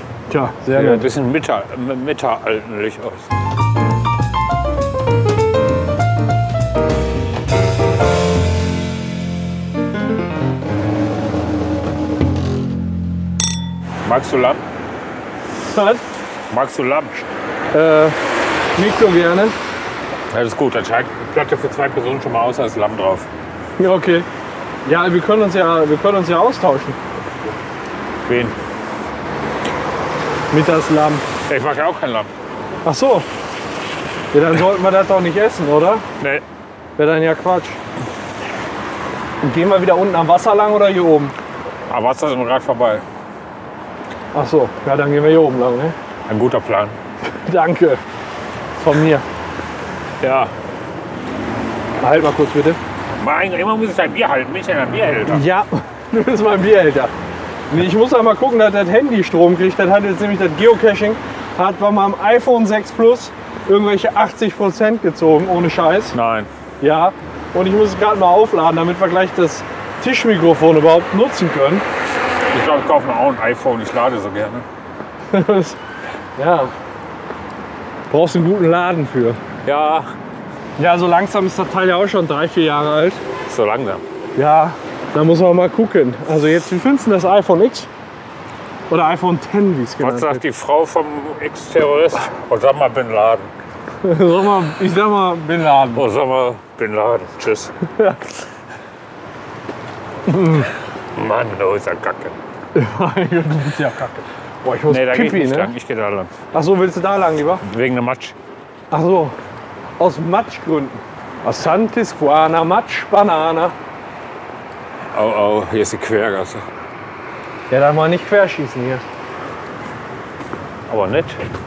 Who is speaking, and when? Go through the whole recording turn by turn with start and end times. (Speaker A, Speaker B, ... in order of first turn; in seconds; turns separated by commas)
Speaker A: 0.3-1.1, Speaker B: 0.7-3.3, Speaker B: 14.0-14.6, Speaker A: 15.7-16.0, Speaker B: 16.5-17.2, Speaker A: 17.7-18.2, Speaker A: 18.8-19.6, Speaker B: 20.3-23.3, Speaker A: 23.8-24.3, Speaker A: 24.8-27.0, Speaker B: 28.2-28.5, Speaker A: 30.5-31.2, Speaker B: 31.5-32.3, Speaker A: 32.8-33.3, Speaker A: 34.3-36.0, Speaker A: 37.0-37.8, Speaker A: 39.4-41.3, Speaker B: 41.9-43.0, Speaker A: 44.3-46.0, Speaker B: 46.3-47.0, Speaker A: 47.5-48.0, Speaker A: 48.8-49.2, Speaker B: 50.2-50.5, Speaker A: 52.0-52.8, Speaker B: 53.2-55.4, Speaker A: 55.3-57.1, Speaker A: 57.7-66.1, Speaker B: 66.1-66.5, Speaker A: 66.8-71.8, Speaker B: 72.5-74.6, Speaker A: 75.3-75.8, Speaker A: 76.4-76.7, Speaker A: 78.1-79.4, Speaker B: 79.6-80.1, Speaker A: 80.8-83.2, Speaker B: 83.5-84.0, Speaker A: 84.3-87.9, Speaker A: 88.9-90.4, Speaker B: 90.0-93.5, Speaker A: 94.0-96.0, Speaker B: 95.9-97.7, Speaker A: 100.3-100.7, Speaker B: 101.1-102.3, Speaker A: 102.7-105.7, Speaker B: 104.9-106.3, Speaker A: 106.5-107.6, Speaker B: 107.6-108.3, Speaker A: 108.9-109.3, Speaker A: 110.0-113.7, Speaker B: 115.1-116.6, Speaker A: 117.7-119.0, Speaker B: 120.9-121.4